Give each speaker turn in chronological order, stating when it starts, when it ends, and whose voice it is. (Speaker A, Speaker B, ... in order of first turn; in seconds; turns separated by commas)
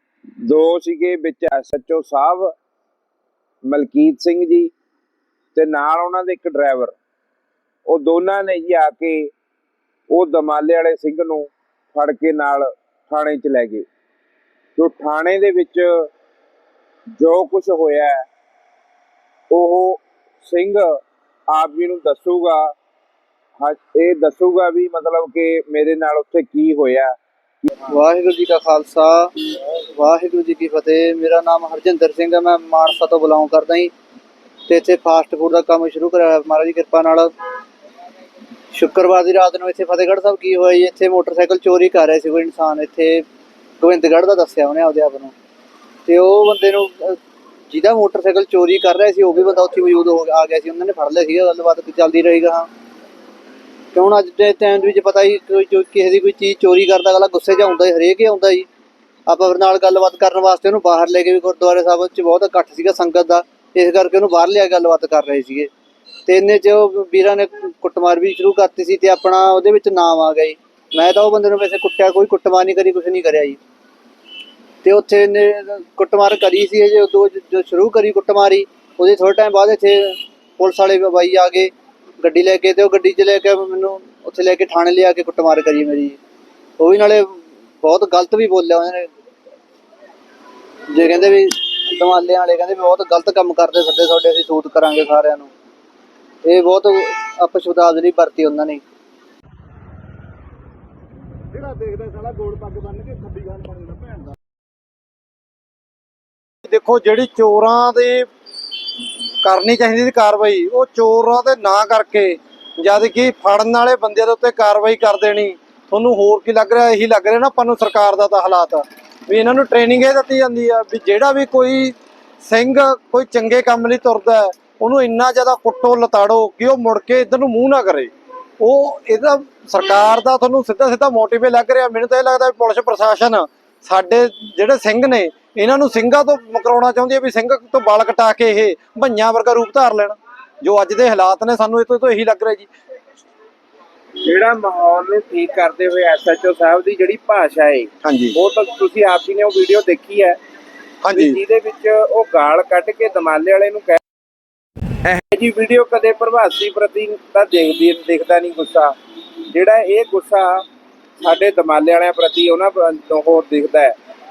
Speaker A: 0.4-2.5, Speaker A: 3.7-4.7, Speaker A: 5.5-7.0, Speaker A: 7.9-9.3, Speaker A: 10.1-13.9, Speaker A: 14.8-16.1, Speaker A: 17.2-18.2, Speaker A: 19.5-21.0, Speaker A: 21.5-22.7, Speaker A: 23.6-27.1, Speaker B: 27.9-33.9, Speaker B: 34.7-37.3, Speaker B: 38.7-43.3, Speaker B: 43.8-45.3, Speaker B: 46.1-47.2, Speaker B: 47.7-52.7, Speaker B: 53.9-58.7, Speaker B: 59.3-65.7, Speaker B: 66.3-73.6, Speaker B: 74.8-86.2, Speaker B: 86.8-89.1, Speaker B: 90.9-95.5, Speaker B: 96.4-98.8, Speaker C: 101.5-104.3, Speaker D: 106.7-108.3, Speaker D: 109.4-142.7, Speaker A: 144.2-150.4, Speaker D: 148.0-148.3, Speaker D: 151.0-151.4, Speaker A: 151.1-154.0, Speaker A: 155.0-158.9, Speaker A: 159.5-160.6, Speaker A: 161.2-163.9